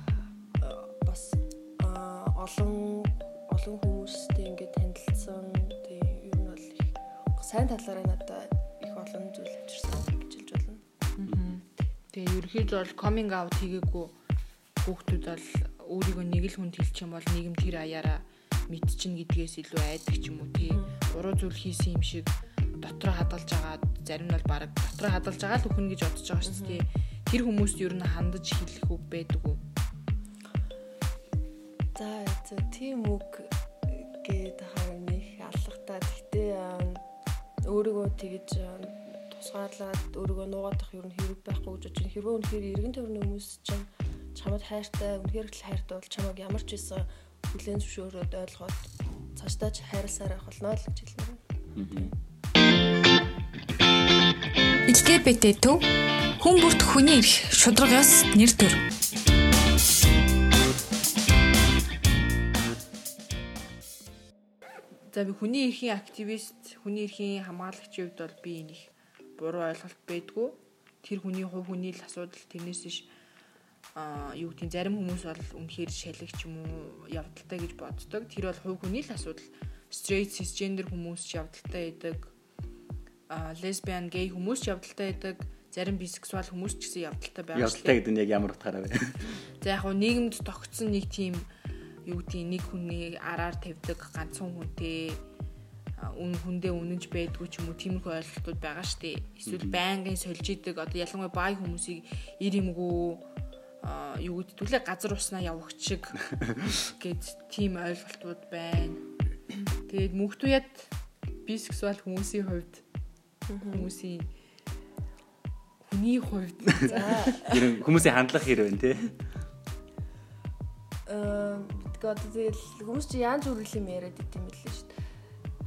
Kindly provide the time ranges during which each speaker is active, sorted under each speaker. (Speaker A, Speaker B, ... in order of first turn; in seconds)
Speaker A: 0.6-10.8, 20.6-20.9, 26.4-26.9, 32.0-37.0, 37.7-52.1, 113.5-113.9, 116.8-117.6, 121.1-124.9
Speaker B: 11.2-14.2, 14.8-29.6, 65.1-73.1, 74.0-82.3, 83.3-88.0, 89.6-91.5, 92.0-95.2, 96.0-103.3, 103.8-109.0, 109.7-110.9, 111.5-112.8, 113.7-114.3, 115.8-117.5
Speaker C: 11.3-11.6, 51.7-52.1, 87.5-89.2, 99.5-99.8, 117.4-119.1
Speaker D: 54.9-58.8